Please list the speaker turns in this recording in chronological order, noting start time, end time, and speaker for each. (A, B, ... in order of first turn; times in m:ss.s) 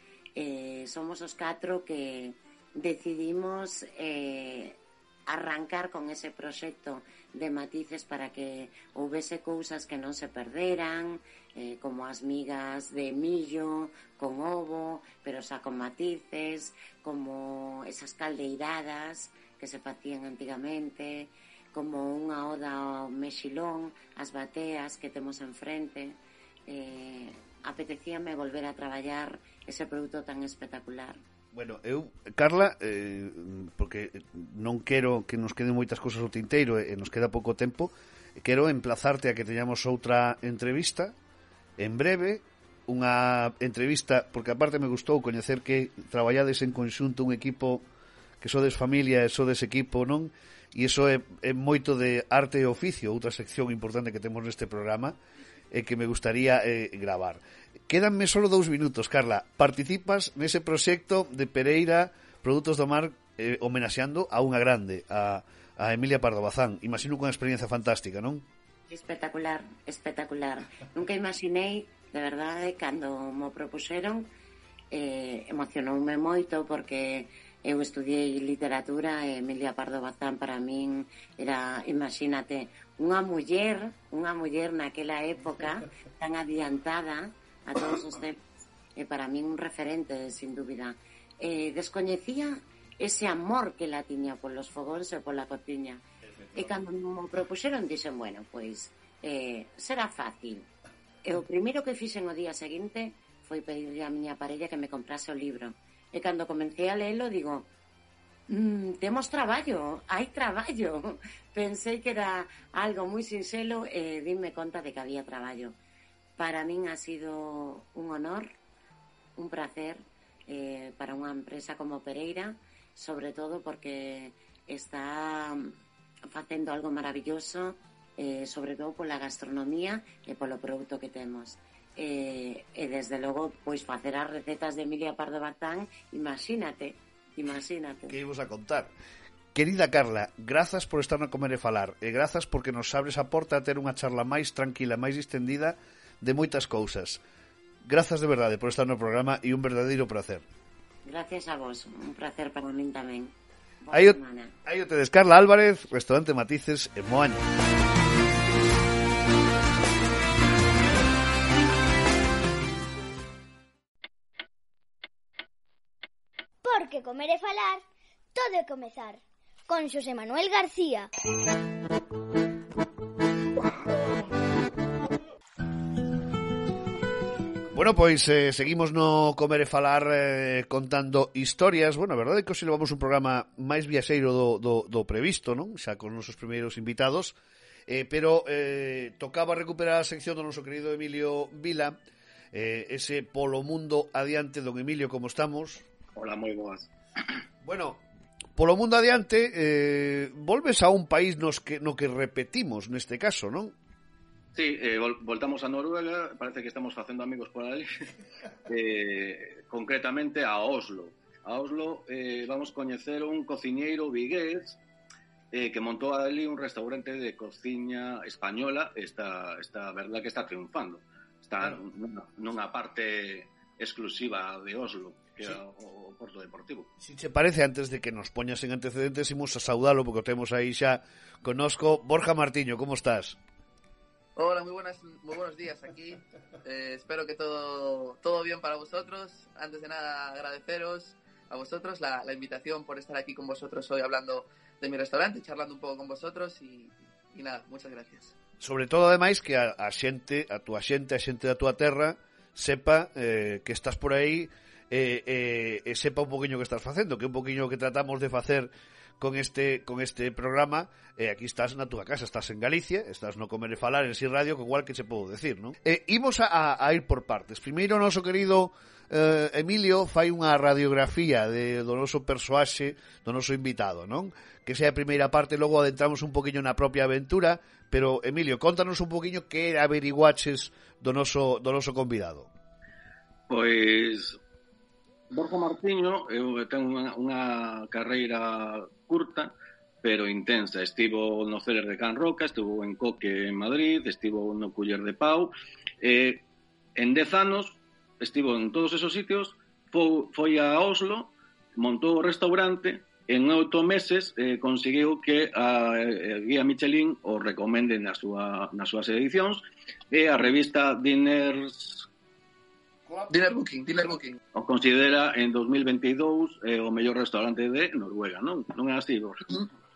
0:00.4-0:31.2 A
0:31.5-0:41.2 B
0:41.8-0:47.8 B
0:48.4-0:55.2 B
0:55.7-1:08.5 B
1:08.9-1:14.3 A
1:14.9-1:28.4 A
1:29.0-1:36.0 A
1:36.2-1:36.8 B
1:36.6-1:40.7 A
1:41.2-1:47.7 A
1:48.5-1:55.8 A
1:56.4-1:58.5 A
1:59.4-2:05.7 A
2:06.3-2:18.2 A
2:18.1-2:18.9 B
2:19.6-2:27.2 B
2:27.8-2:30.4 B
2:31.0-2:34.5 A
2:33.9-2:37.5 B
2:46.6-2:47.8 C
2:48.4-2:51.1 C
2:57.7-3:12.0 B
3:12.5-3:15.9 B
3:16.2-3:16.9 D
3:17.6-3:18.0 B
3:18.6-3:23.8 B
3:24.5-3:28.1 D
3:28.7-3:34.8 D
3:35.5-3:46.9 D
3:47.0-3:53.4 B
3:54.4-4:08.3 E
4:08.6-4:42.5 B
4:43.5-4:44.4 D
4:45.3-4:56.4 D
4:57.0-5:12.1 D
5:13.1-5:13.4 B
5:13.3-5:14.4 E
5:14.5-5:19.4 D